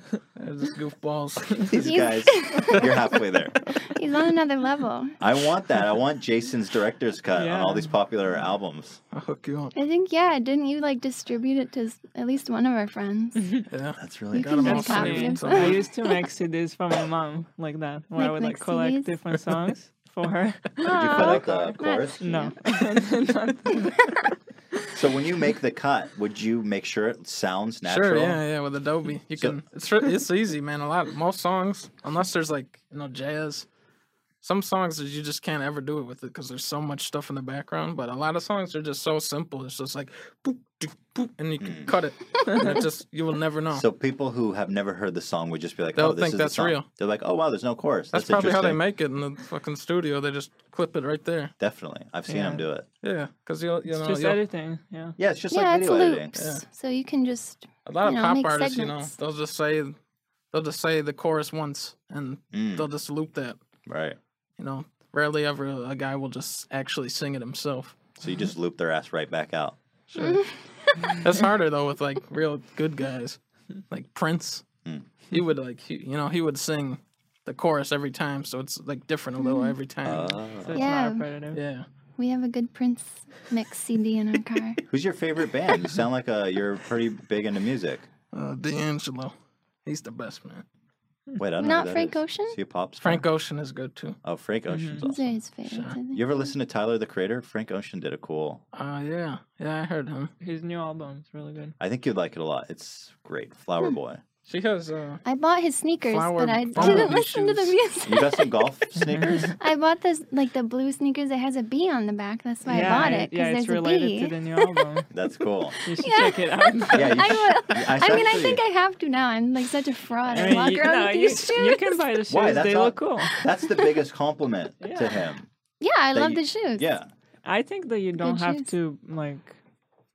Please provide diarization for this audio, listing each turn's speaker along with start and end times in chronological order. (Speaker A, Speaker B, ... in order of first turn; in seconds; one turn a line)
Speaker A: 0.3-1.8
Speaker B: 1.7-3.6
Speaker C: 1.8-3.0
Speaker C: 3.8-5.2
Speaker B: 5.2-9.0
Speaker D: 7.3-7.9
Speaker A: 9.1-9.7
Speaker C: 9.8-13.6
Speaker A: 13.7-15.8
Speaker B: 14.0-14.8
Speaker C: 14.3-15.9
Speaker D: 14.7-21.5
Speaker C: 18.2-19.1
Speaker C: 20.8-22.9
Speaker B: 20.9-22.2
Speaker D: 22.2-24.3
Speaker B: 24.9-28.4
Speaker A: 27.9-33.7
Speaker A: 34.4-43.9
Speaker B: 41.6-41.9
Speaker B: 43.7-48.8
Speaker A: 46.0-46.9
Speaker A: 48.1-51.5
Speaker B: 51.6-52.9
Speaker D: 52.3-52.6
Speaker A: 53.0-54.4
Speaker D: 53.9-55.2
Speaker B: 55.2-56.4
Speaker C: 55.5-59.1
Speaker A: 56.4-56.6
Speaker A: 57.9-60.0
Speaker A: 60.5-63.6
Speaker B: 62.5-62.9
Speaker B: 63.9-64.2
Speaker A: 64.6-68.0
Speaker B: 68.2-69.8
Speaker A: 70.1-70.4
Speaker C: 70.2-71.2
Speaker A: 71.0-73.4
Speaker A: 73.9-74.7
Speaker A: 75.3-80.4
Speaker C: 79.4-79.8
Speaker B: 80.0-80.8
Speaker D: 80.7-81.6
Speaker C: 80.7-81.3
Speaker A: 81.5-81.9
Speaker C: 82.2-84.8
Speaker B: 84.9-88.1
Speaker A: 88.3-90.7
Speaker B: 91.4-93.2
Speaker C: 91.6-92.6
Speaker A: 93.0-94.2
Speaker B: 94.2-95.3
Speaker D: 94.7-95.0
Speaker C: 95.0-96.2
Speaker A: 95.7-96.0
Speaker B: 96.1-98.6
Speaker A: 98.7-100.3
Speaker D: 100.4-101.8
Speaker B: 101.8-104.2
Speaker A: 104.5-105.2
Speaker C: 105.2-108.5
Speaker A: 106.1-107.8
Speaker B: 106.8-107.1
Speaker B: 108.0-109.5
Speaker C: 109.6-114.7
Speaker B: 112.7-113.1
Speaker D: 112.7-115.1
Speaker B: 115.1-115.8
Speaker D: 115.8-117.4
Speaker C: 115.8-122.0
Speaker B: 116.9-118.6
Speaker B: 120.3-120.6
Speaker D: 120.3-123.3
Speaker B: 122.3-125.5
Speaker C: 123.2-123.7
Speaker D: 124.8-125.2
Speaker C: 125.8-126.9
Speaker B: 126.1-127.1
Speaker D: 127.5-129.6
Speaker C: 128.2-128.7